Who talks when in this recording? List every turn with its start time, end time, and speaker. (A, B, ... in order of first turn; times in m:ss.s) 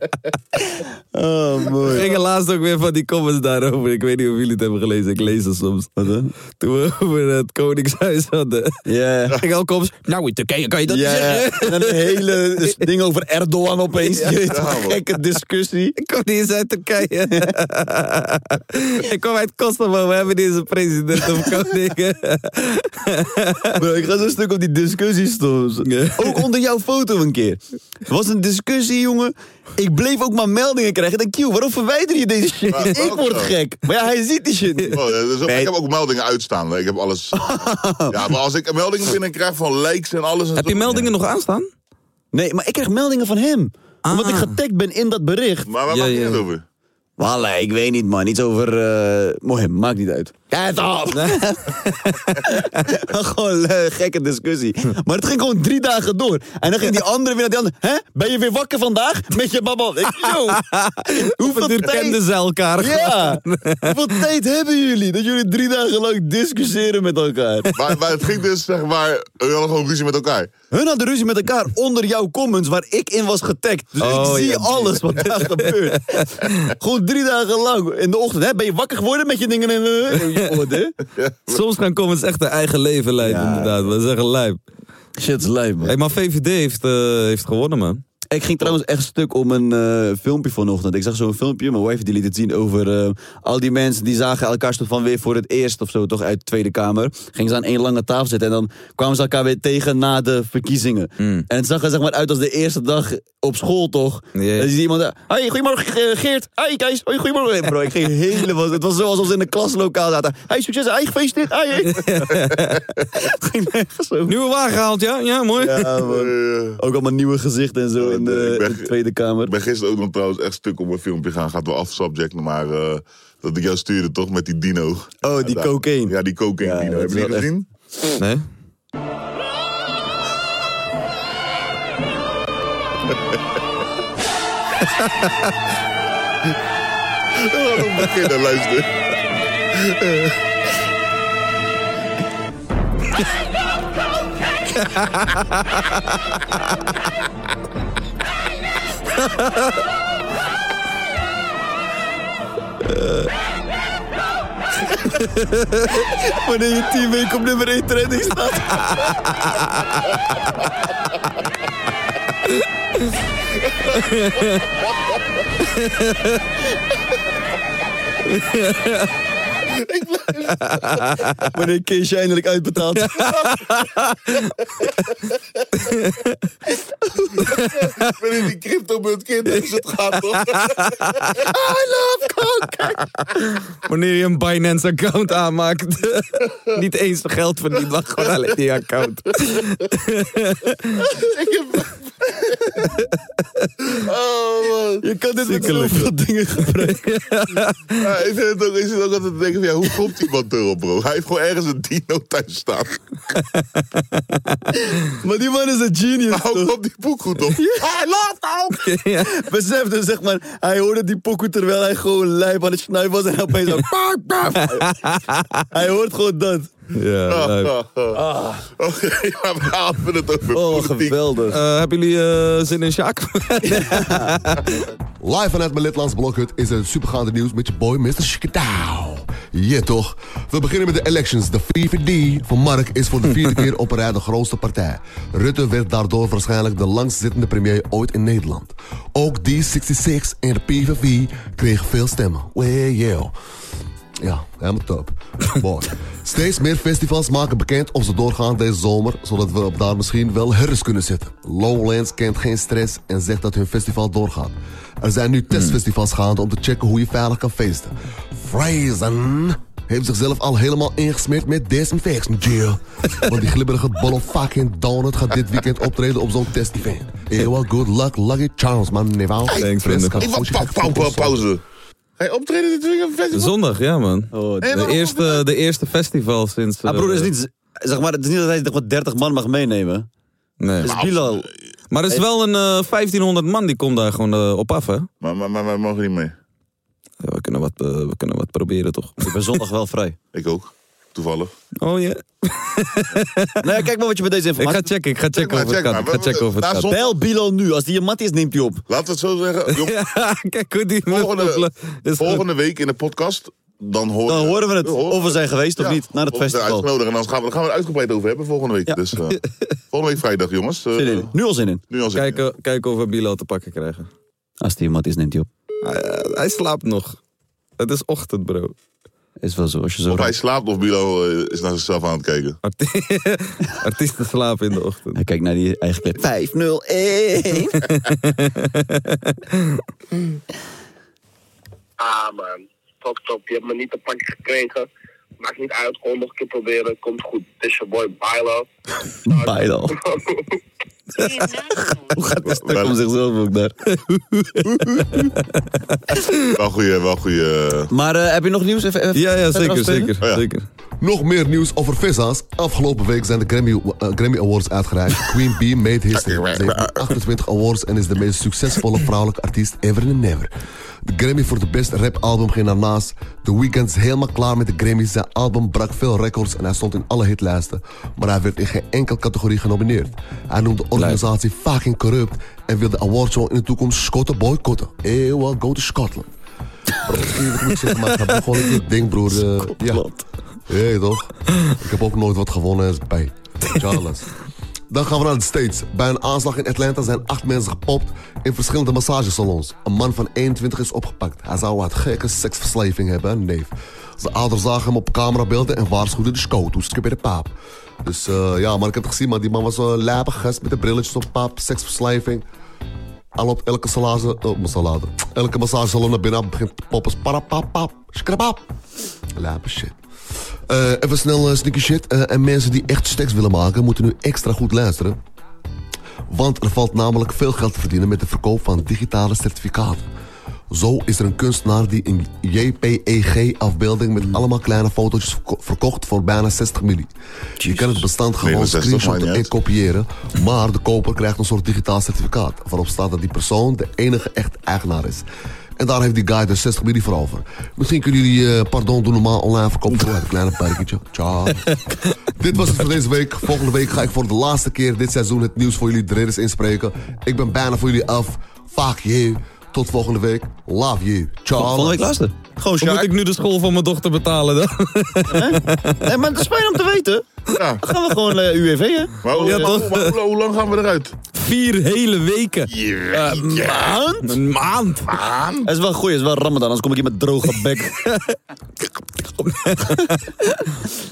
0:00.6-0:02.1 A
0:01.9-0:05.9 B
0:06.0-0:06.3 A
0:06.6-0:08.8 B
0:08.8-0:09.4 A
0:09.4-0:12.7 B
0:10.9-0:15.9 A
0:14.4-0:15.0 C
0:16.0-0:23.7 B
0:23.8-0:35.7 A
0:25.8-0:26.4 B
0:32.7-0:33.5 C
0:34.9-0:41.1 C
0:37.3-0:38.2 A
0:40.6-0:41.7 B
0:42.3-0:45.7 A
0:44.0-0:44.6 B
0:45.7-0:46.6 C
0:45.9-0:46.4 B
0:47.2-1:02.2 A
0:51.1-0:51.4 B
1:00.2-1:04.2 B
1:02.8-1:07.7 A
1:07.7-1:10.5 C
1:10.7-1:20.9 A
1:14.0-1:16.7 B
1:21.1-1:21.6 C
1:21.5-1:24.6 B
1:23.2-1:23.7 A
1:25.2-1:25.9 A
1:25.8-1:28.0 B
1:28.3-1:52.1 A
1:41.2-1:41.4 B
1:44.3-1:44.7 B
1:51.8-1:52.8 B
1:53.1-1:54.3 A
1:54.3-1:56.0 B
1:55.6-1:59.5 A
1:56.0-1:56.8 C
1:58.0-1:58.9 C
1:59.4-2:07.7 C
2:05.2-2:07.5 A
2:08.2-2:08.4 B
2:13.1-2:13.4 C
2:15.0-2:15.3 B
2:17.3-2:18.9 C
2:19.7-2:20.4 C
2:24.8-2:25.6 B
2:29.2-2:29.7 B
2:32.9-2:33.3 B
2:35.1-2:36.0 B
2:36.1-2:39.1 A
2:39.0-2:39.7 B
2:44.0-2:44.6 B
2:45.8-2:46.4 B
2:48.3-2:49.1 B
2:49.6-2:51.2 C
2:50.6-2:51.4 B
2:51.5-2:53.3 A
2:53.0-2:53.9 B
2:53.3-2:53.5 C
2:55.8-2:56.4 B
2:57.1-2:57.4 A
2:57.4-3:03.0 C
2:57.5-2:58.1 B
2:59.5-3:01.3 B
3:03.3-3:11.0 B
3:11.0-3:12.8 C
3:13.8-3:15.0 C
3:15.0-3:17.0 A
3:15.4-3:16.1 B
3:16.6-3:18.0 B
3:18.0-3:23.0 C
3:23.3-3:24.7 B
3:25.1-3:26.7 A
3:26.3-3:28.7 C
3:28.7-3:29.3 B
3:29.2-3:35.0 A
3:34.7-3:35.7 B
3:35.7-3:36.7 A
3:36.9-3:37.7 B
3:37.3-3:41.2 C
3:40.5-3:41.6 A
3:41.5-3:44.7 B
3:43.6-3:44.4 A
3:45.2-4:03.3 D
4:04.2-4:31.4 D
4:29.5-4:31.6 C
4:29.6-4:30.2 B
4:32.2-4:33.6 C
4:33.3-4:37.3 B
4:34.3-4:34.8 A
4:34.6-4:35.4 C
4:36.8-4:40.1 A
4:40.6-4:41.0 B
4:40.8-4:41.5 A
4:40.8-4:41.5 C
4:41.9-4:45.1 B
4:45.2-4:46.3 C
4:47.2-4:49.6 B
4:49.2-4:50.2 A
4:50.3-4:51.5 C
4:51.8-4:53.6 B
4:53.6-4:54.9 A
4:54.6-4:56.9 B
4:55.3-4:57.1 C
4:56.9-4:58.8 A
4:58.9-4:59.9 C
4:59.7-5:02.4 B
5:01.1-5:01.6 C
5:02.2-5:09.4 C
5:04.3-5:06.9 A
5:09.9-5:11.3 C
5:10.9-5:11.8 A
5:11.9-5:12.4 C
5:12.1-5:14.1 B
5:14.6-5:15.5 A
5:15.8-5:17.2 B
5:17.8-5:18.7 B
5:19.4-5:20.3 A
5:20.1-5:22.6 C
5:22.6-5:25.2 B
5:25.1-5:27.8 A
5:27.8-5:29.8 B
5:32.0-5:34.9 E
5:35.4-5:38.7 E
5:39.2-5:39.9 A
5:39.3-5:40.4 E
5:41.2-5:43.7 A
5:42.5-5:43.0 C
5:43.9-5:46.4 B
5:44.6-5:45.3 A
5:46.6-5:47.9 C
5:47.9-5:50.1 A
5:49.1-5:50.6 B
5:51.0-6:00.5 D
5:56.1-5:57.1 C
6:01.0-6:16.3 D
6:17.0-6:20.1 D
6:19.6-6:20.2 A
6:20.7-6:24.3 D
6:24.9-6:42.4 D
6:43.4-6:48.6 D
6:49.3-6:50.0 D
6:50.7-6:55.2 D
6:56.3-7:00.1 D
7:00.7-7:07.1 D
7:07.6-7:08.0 A
7:07.6-7:15.2 D
7:08.4-7:09.5 C
7:15.8-7:21.8 D
7:22.3-7:32.0 D
7:31.5-7:33.1 A
7:32.8-7:36.0 B
7:35.3-7:37.2 A
7:37.5-7:37.8 C
7:37.8-7:39.7 A
7:39.2-7:41.2 C
7:39.3-7:40.2 B
7:41.3-7:42.7 B
7:42.8-7:43.5 C
7:43.1-7:44.4 A
7:44.2-7:45.1 B
7:45.1-7:45.7 C
7:45.6-7:48.0 A
7:48.0-7:48.4 B
7:49.2-7:50.2 B
7:49.8-7:50.7 A